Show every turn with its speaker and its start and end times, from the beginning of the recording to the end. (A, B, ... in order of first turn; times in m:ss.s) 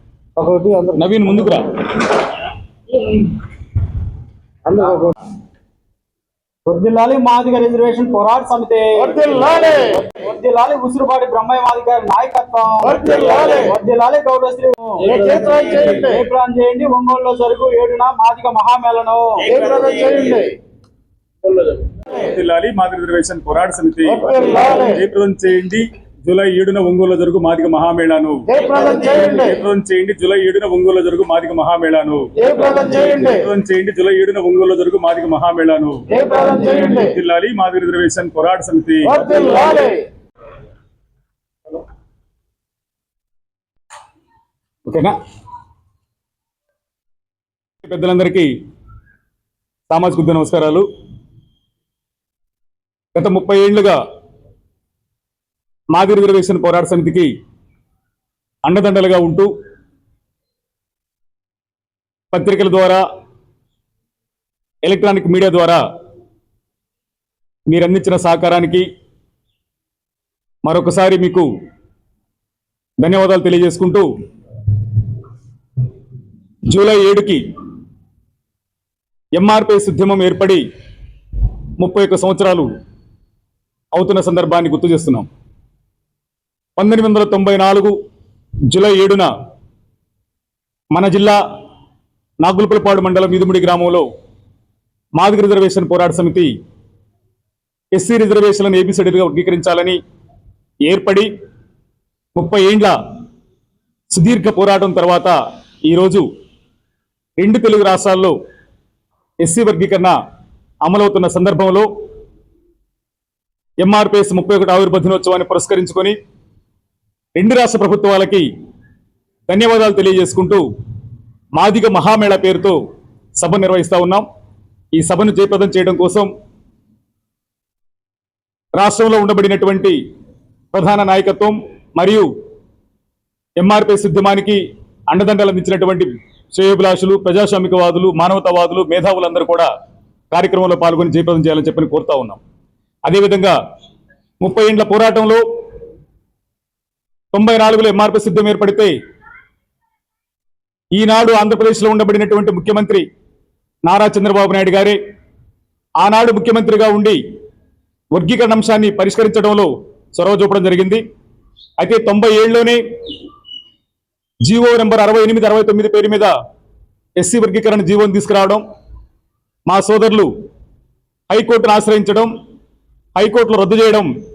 0:00.4-0:01.0 A
0:00.9-0:02.0 B
0:04.6-0:05.2 A
0:06.6-0:19.6 C
0:09.2-0:10.0 A
0:13.0-0:13.6 A
0:15.0-0:16.2 A
0:19.5-0:20.6 A
0:22.0-0:39.9 B
0:39.2-0:40.0 A
0:44.9-0:45.2 B
0:47.8-0:48.5 B
0:49.9-0:50.8 B
0:53.1-0:54.0 B
0:55.9-0:57.3 B
0:58.6-0:59.5 B
1:02.3-1:03.0 B
1:04.8-1:05.8 B
1:07.7-1:08.9 B
1:10.6-1:11.5 B
1:13.0-1:14.1 B
1:16.7-1:17.4 B
1:19.3-1:20.6 B
1:21.8-1:22.7 B
1:23.9-1:25.3 B
1:26.8-1:27.9 B
1:28.7-1:29.3 B
1:30.9-1:31.4 B
1:32.4-1:34.1 B
1:35.2-1:36.5 B
1:37.9-1:40.0 B
1:40.8-1:41.3 B
1:42.4-1:43.0 B
1:44.1-1:46.3 B
1:47.4-1:48.3 B
1:49.4-1:50.2 B
1:50.8-1:51.9 B
1:53.8-1:56.2 B
1:57.3-1:58.5 B
1:59.5-2:00.6 B
2:01.6-2:02.8 B
2:03.4-2:04.2 B
2:04.9-2:06.3 B
2:08.8-2:10.0 B
2:10.7-2:12.3 B
2:13.6-2:19.7 B
2:20.3-2:22.4 B
2:23.1-2:23.6 B
2:24.4-2:25.4 B
2:27.3-2:28.9 B
2:30.9-2:33.0 B
2:33.8-2:35.0 B
2:36.0-2:37.2 B
2:38.1-2:41.0 B
2:41.8-2:42.8 B
2:44.4-2:46.3 B
2:47.2-2:48.6 B
2:49.7-2:50.3 B
2:51.3-2:52.3 B
2:53.1-2:54.1 B